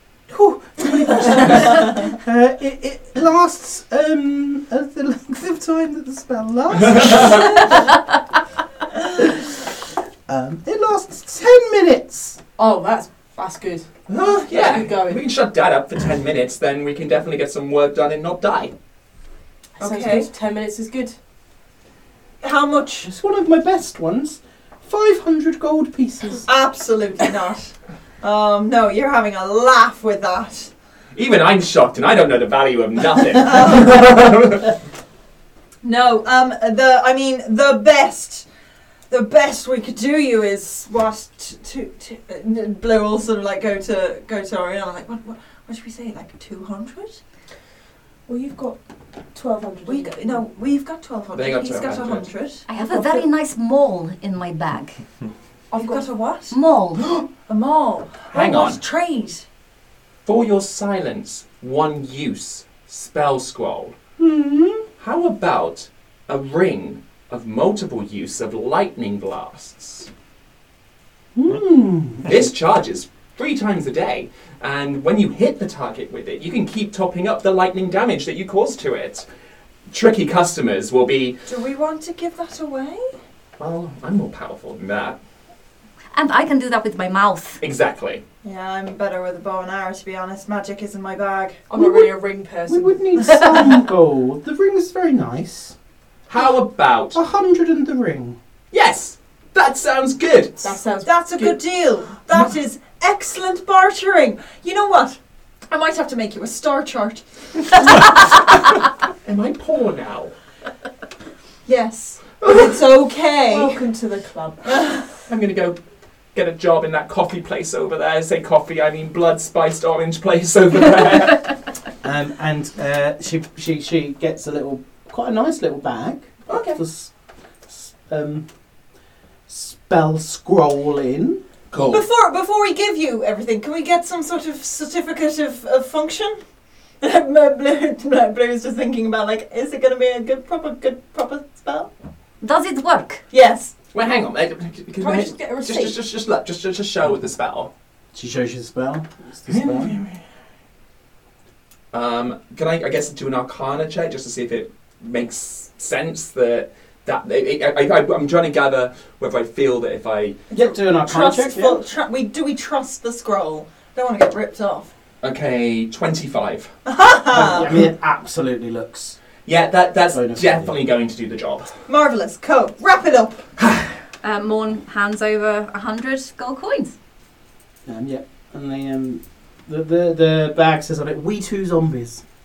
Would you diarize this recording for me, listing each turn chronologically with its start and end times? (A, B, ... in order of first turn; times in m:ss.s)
0:00.3-0:07.7 A
0:06.7-0:07.6 B
0:09.2-0:09.6 A
0:10.3-0:12.4 A
0:12.6-0:15.2 C
0:14.1-0:18.7 B
0:19.8-0:21.2 C
0:19.8-0:20.3 D
0:22.4-0:23.1 D
0:23.0-0:26.5 A
0:26.5-0:30.7 D
0:31.2-0:34.7 B
0:33.4-0:34.0 D
0:35.8-0:38.5 D
0:39.1-0:47.2 D
0:48.3-0:48.8 C
0:49.3-0:50.3 C
0:49.9-0:52.7 D
0:51.3-0:52.3 B
0:52.7-0:55.0 E
0:52.8-0:53.3 C
0:55.7-0:56.1 C
0:55.7-0:56.5 D
0:56.5-0:57.0 E
0:57.4-0:59.4 D
0:58.3-0:58.8 B
1:00.3-1:04.0 B
1:04.2-1:04.8 A
1:05.0-1:10.1 B
1:11.4-1:12.5 A
1:12.2-1:19.3 B
1:19.9-1:21.4 B
1:21.5-1:23.1 D
1:23.6-1:25.2 B
1:26.1-1:27.6 E
1:27.6-1:28.2 B
1:28.4-1:31.7 D
1:31.7-1:33.5 C
1:31.8-1:32.1 A
1:32.7-1:35.8 A
1:36.3-1:37.2 B
1:37.1-1:38.4 A
1:38.7-1:40.8 B
1:40.6-1:41.6 C
1:41.0-1:45.2 D
1:45.7-1:47.2 D
1:49.2-1:50.3 B
1:51.7-1:53.8 D
1:52.4-1:52.7 B
1:53.4-1:55.0 C
1:55.3-1:55.8 B
1:56.3-2:01.5 B
2:02.0-2:07.1 A
2:06.5-2:06.8 B
2:07.7-2:08.5 A
2:09.5-2:11.4 A
2:11.7-2:12.0 B
2:11.9-2:16.4 D
2:17.0-2:21.9 D
2:22.4-2:23.2 E
2:23.3-2:23.7 D
2:23.9-2:27.7 B
2:25.0-2:26.0 C
2:28.1-2:30.0 A
2:29.5-2:30.2 B
2:31.9-2:40.4 B
2:40.5-2:44.9 D
2:40.5-2:41.8 A
2:45.2-2:46.7 B
2:46.9-2:47.7 D
2:47.3-2:49.2 A
2:49.5-2:51.7 B
2:50.1-2:50.7 A
2:51.9-2:53.4 D
2:53.6-2:53.9 B
2:54.2-2:57.0 E
2:57.9-3:02.2 A